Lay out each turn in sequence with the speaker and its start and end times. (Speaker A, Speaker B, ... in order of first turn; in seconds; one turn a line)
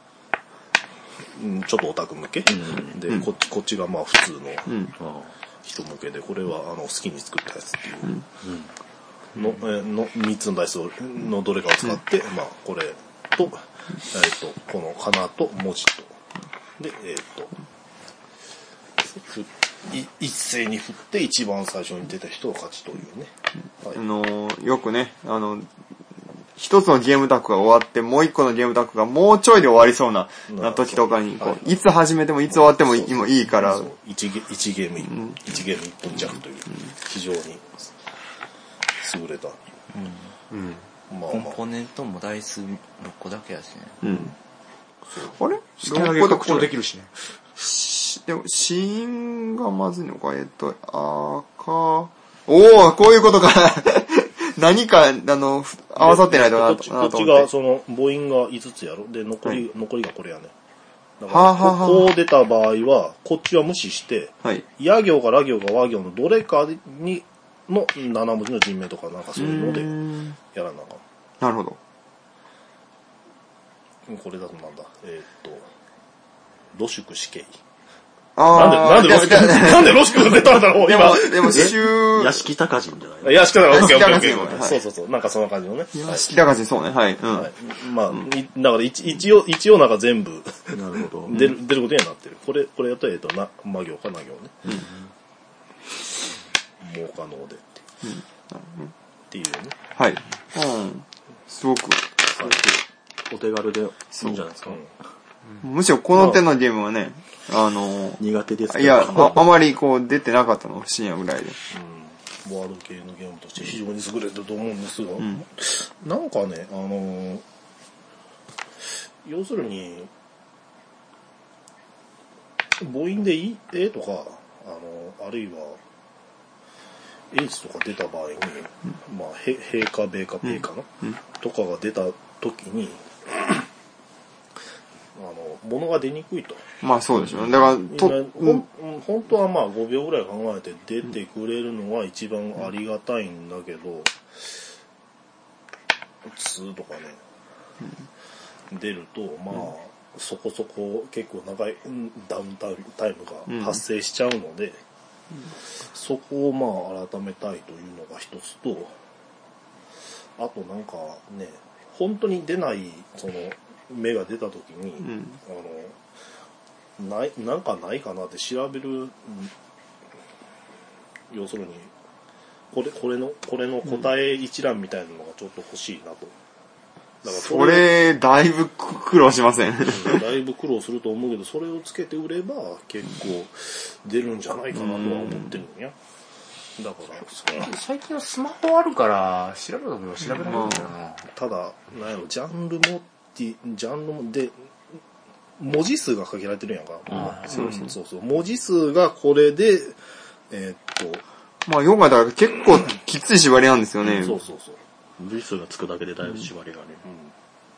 Speaker A: 1.3-4.8
Speaker B: 2.5-2.9
Speaker C: 4.7-4.9
Speaker B: 5.0-5.3
Speaker A: 5.6-8.1
Speaker B: 8.4-8.7
Speaker A: 9.3-16.1
Speaker A: 16.8-17.5
Speaker A: 19.1-24.0
Speaker C: 23.9-25.7
Speaker C: 26.6-33.9
Speaker A: 30.5-31.8
Speaker A: 32.5-37.9
Speaker C: 35.1-35.5
Speaker A: 39.0-39.6
Speaker D: 39.9-40.3
Speaker E: 40.5-40.9
Speaker A: 41.1-41.6
Speaker D: 41.3-44.0
Speaker C: 44.0-44.3
Speaker C: 45.3-46.7
Speaker E: 45.8-47.1
Speaker C: 47.6-57.5
Speaker A: 56.0-60.5
Speaker A: 61.2-71.0
Speaker C: 61.3-62.1
Speaker C: 69.4-70.4
Speaker C: 71.4-71.8
Speaker A: 74.1-75.7
Speaker A: 76.7-77.6
Speaker C: 78.4-82.5
Speaker A: 78.5-81.8
Speaker B: 81.5-84.4
Speaker A: 83.2-86.3
Speaker C: 83.7-84.8
Speaker C: 85.9-87.5
Speaker A: 87.3-94.7
Speaker B: 90.7-91.4
Speaker B: 94.7-95.0
Speaker A: 96.8-97.8
Speaker C: 98.0-98.9
Speaker A: 99.3-99.8
Speaker C: 100.0-102.2
Speaker B: 102.3-104.8
Speaker C: 104.1-104.4
Speaker C: 105.6-111.6
Speaker A: 106.2-106.4
Speaker B: 108.2-109.5
Speaker A: 111.7-117.4
Speaker A: 118.8-120.1
Speaker A: 122.8-125.8
Speaker A: 127.3-133.6
Speaker C: 130.4-131.2
Speaker A: 135.2-136.6
Speaker C: 136.8-138.6
Speaker A: 137.9-144.5
Speaker A: 146.2-147.2
Speaker A: 148.7-154.8
Speaker C: 153.5-153.8
Speaker A: 155.8-159.0
Speaker A: 160.4-166.0
Speaker C: 165.0-165.4
Speaker A: 167.0-169.5
Speaker A: 171.3-171.9
Speaker A: 172.7-176.3
Speaker A: 177.2-177.9
Speaker C: 177.2-180.3
Speaker A: 179.9-186.0
Speaker C: 184.8-185.6
Speaker A: 186.8-187.7
Speaker E: 187.4-191.2
Speaker C: 190.3-190.9
Speaker A: 191.3-194.7
Speaker A: 195.6-201.2
Speaker C: 197.4-197.9
Speaker C: 201.7-204.4
Speaker A: 204.1-204.8
Speaker B: 205.2-207.1
Speaker A: 207.1-207.3